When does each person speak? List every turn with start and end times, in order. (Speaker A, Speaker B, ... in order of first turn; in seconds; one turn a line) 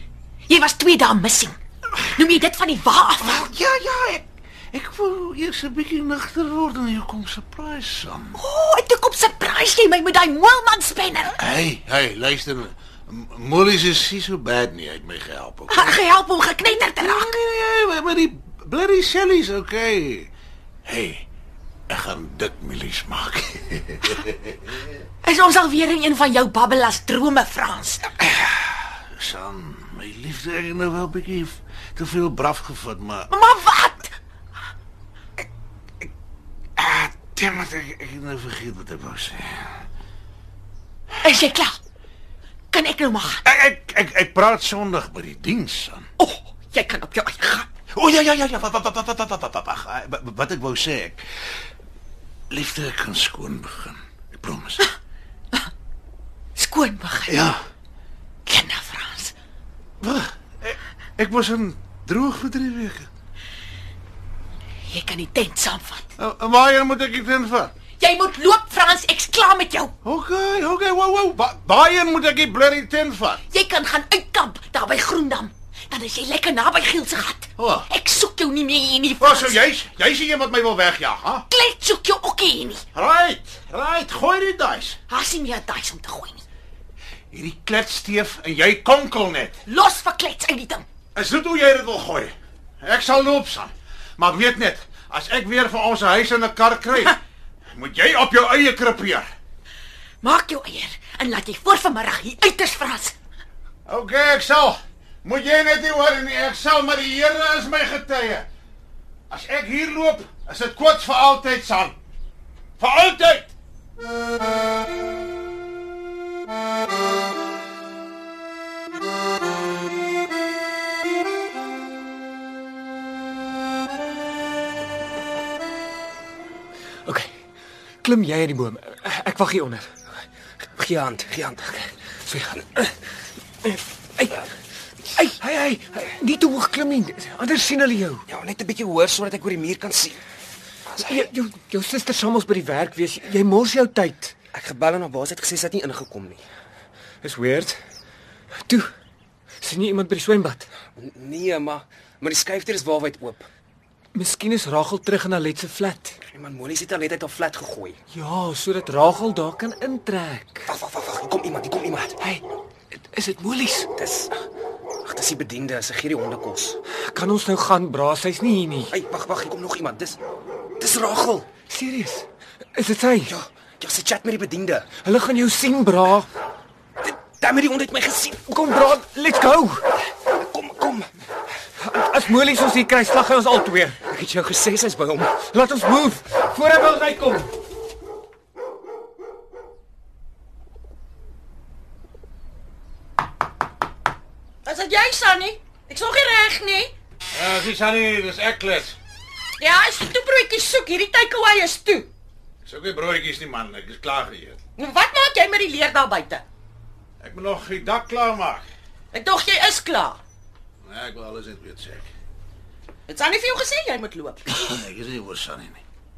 Speaker A: 0.5-3.4
Speaker B: 3.2-8.4
Speaker A: 8.3-11.4
Speaker B: 11.4-16.0
Speaker A: 15.7-17.4
Speaker B: 17.0-20.3
Speaker B: 20.9-21.2
Speaker B: 21.9-24.8
Speaker A: 25.2-28.1
Speaker B: 28.3-33.3
Speaker A: 33.3-34.1
Speaker B: 36.8-39.8
Speaker A: 41.2-41.8
Speaker A: 42.7-43.4
Speaker B: 43.4-46.1
Speaker A: 46.2-47.7
Speaker B: 47.9-51.2
Speaker B: 52.5-54.9
Speaker A: 56.5-57.5
Speaker B: 57.3-57.6
Speaker A: 58.5-59.3
Speaker B: 60.0-63.1
Speaker A: 64.9-66.1
Speaker B: 66.2-67.7
Speaker A: 68.0-69.9
Speaker B: 70.0-73.4
Speaker A: 73.5-79.6
Speaker B: 77.6-77.9
Speaker B: 79.2-81.5
Speaker A: 81.5-82.8
Speaker B: 82.9-85.0
Speaker A: 85.1-86.4
Speaker B: 87.3-89.5
Speaker A: 89.7-90.8
Speaker B: 91.1-97.2
Speaker B: 97.7-99.3
Speaker A: 100.2-103.1
Speaker B: 103.8-108.5
Speaker B: 109.3-112.0
Speaker B: 112.8-113.5
Speaker C: 128.0-129.9
Speaker D: 130.8-131.8
Speaker C: 132.2-132.9
Speaker C: 133.6-134.4
Speaker C: 135.1-138.2
Speaker D: 138.3-140.2
Speaker C: 141.0-144.3
Speaker D: 144.5-146.4
Speaker C: 147.2-147.8
Speaker C: 149.6-150.7
Speaker D: 150.9-153.4
Speaker C: 154.1-156.2
Speaker D: 156.2-158.0
Speaker C: 158.1-160.7
Speaker D: 160.7-162.2
Speaker C: 162.2-163.9
Speaker D: 163.9-164.4
Speaker D: 165.0-166.8
Speaker C: 167.0-168.9
Speaker D: 168.9-170.2
Speaker D: 170.8-171.5
Speaker C: 171.7-173.3
Speaker D: 173.2-174.9
Speaker C: 175.0-176.3
Speaker D: 177.0-178.4
Speaker C: 178.4-179.8
Speaker D: 180.3-181.1
Speaker C: 181.8-184.0
Speaker D: 184.1-185.4
Speaker C: 185.5-187.5
Speaker E: 194.6-196.9
Speaker B: 197.3-198.9
Speaker E: 199.6-202.1
Speaker B: 202.6-204.6
Speaker E: 204.8-206.4
Speaker B: 207.2-208.6
Speaker E: 209.1-210.2
Speaker B: 210.8-212.1
Speaker E: 213.1-214.5
Speaker B: 214.5-215.8